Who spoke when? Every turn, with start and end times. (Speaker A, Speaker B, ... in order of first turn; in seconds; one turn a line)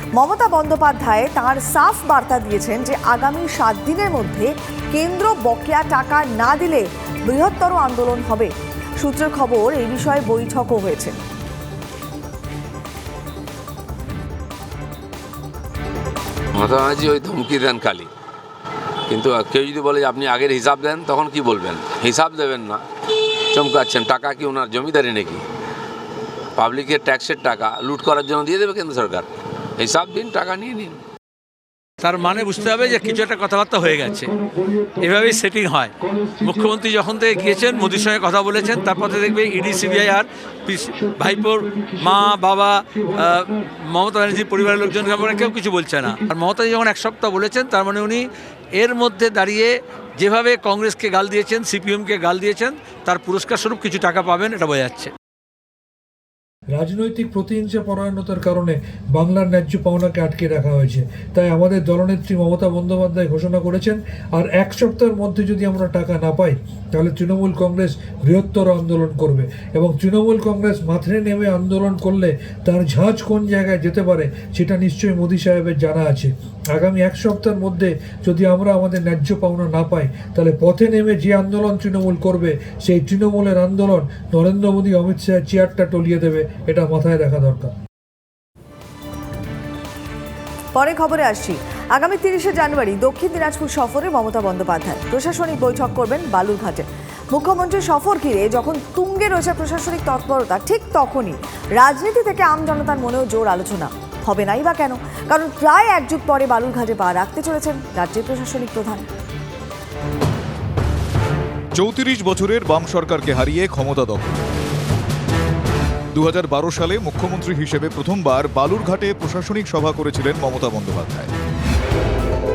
Speaker A: 0.1-11.2
Speaker B: 16.6-18.1
Speaker B: 19.1-22.8
Speaker B: 23.5-25.4
Speaker B: 26.6-29.3
Speaker B: 29.8-31.0
Speaker C: 32.0-34.3
Speaker C: 35.0-55.1
Speaker D: 56.7-87.7
Speaker A: 90.7-109.0
Speaker E: 111.8-114.4
Speaker E: 116.1-121.3